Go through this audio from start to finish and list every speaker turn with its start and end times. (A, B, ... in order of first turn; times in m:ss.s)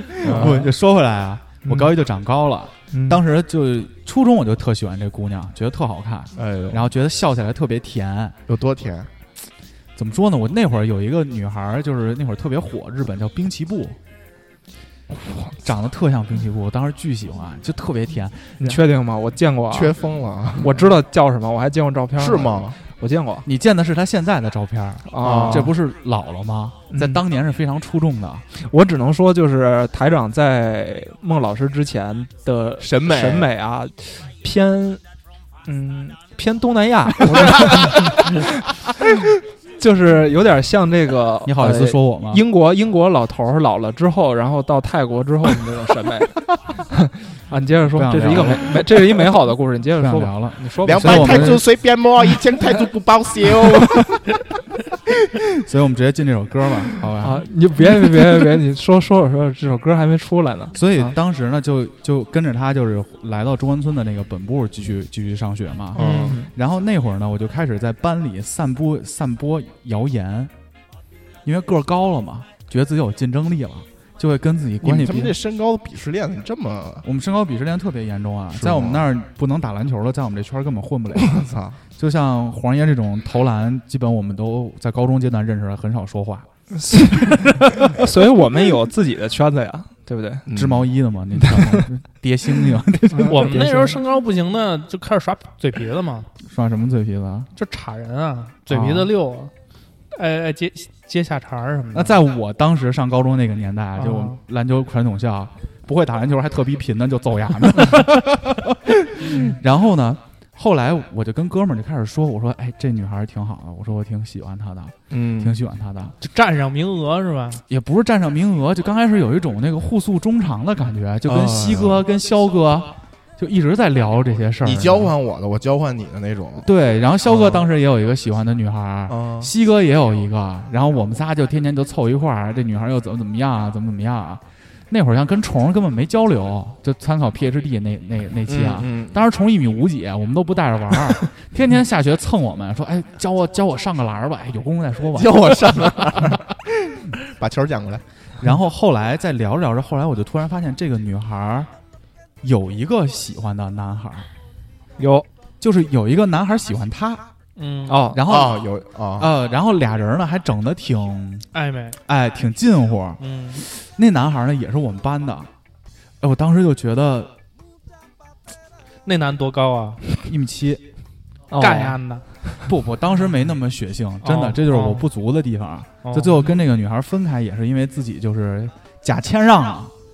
0:00.2-0:00.7 A
0:00.2-0:08.4 B
0:01.6-0:01.9 C
0:02.9-0:03.2 C
0:06.4-0:06.9 A
0:08.5-0:09.1 A
0:10.0-0:14.0 B
0:15.6-0:18.8 B
0:18.6-0:19.9 C
0:19.7-0:20.9 A
0:20.6-0:23.5 C
0:22.2-0:22.8 A
0:23.4-0:28.4 B
0:25.1-0:25.7 C
0:25.2-0:25.7 A
0:26.9-0:27.2 C
0:28.6-0:35.0 C
0:32.8-0:33.5 A
0:35.7-0:38.5 C
0:39.8-0:46.4 C
0:41.4-0:42.4 B
0:46.9-0:51.6 C
0:47.9-0:49.3 B
0:50.0-0:51.6 B
0:50.8-0:54.2 A
0:55.5-0:57.9 B
0:57.2-1:01.1 C
1:00.7-1:10.5 B
1:06.0-1:06.4 D
1:06.0-1:06.4 A
1:06.0-1:06.5 C
1:11.4-1:15.4 B
1:14.8-1:17.0 A
1:17.0-1:21.4 B
1:18.5-1:19.1 A
1:21.2-1:21.8 A
1:22.0-1:26.5 B
1:26.8-1:30.5 C
1:30.5-1:30.9 A
1:30.5-1:34.0 B
1:31.4-1:31.8 C
1:33.2-1:36.3 D
1:36.5-1:37.5 B
1:37.5-1:39.5 D
1:38.7-1:39.1 B
1:40.1-1:42.2 D
1:41.9-1:56.1 B
1:44.0-1:44.4 D
1:55.1-1:55.6 A
1:56.2-1:57.6 D
1:57.7-2:05.1 B
2:01.2-2:02.0 A
2:04.6-2:06.7 A
2:06.6-2:26.4 B
2:07.2-2:07.6 A
2:09.1-2:09.5 A
2:18.5-2:19.2 A
2:25.1-2:28.0 A
2:28.4-2:31.7 B
2:32.4-2:34.3 B
2:35.0-2:35.3 C
2:35.6-2:37.2 B
2:37.6-2:38.1 D
2:37.9-2:38.2 C
2:38.1-2:41.5 B
2:38.2-2:39.3 A
2:41.5-2:42.0 D
2:42.1-2:45.5 B
2:43.2-2:43.6 D
2:46.2-2:47.3 B
2:49.0-2:50.0 D
2:50.2-2:50.8 B
2:51.5-2:52.0 C
2:51.6-2:52.5 D
2:52.6-2:59.9 B
2:54.2-2:55.1 D
2:56.0-2:56.4 D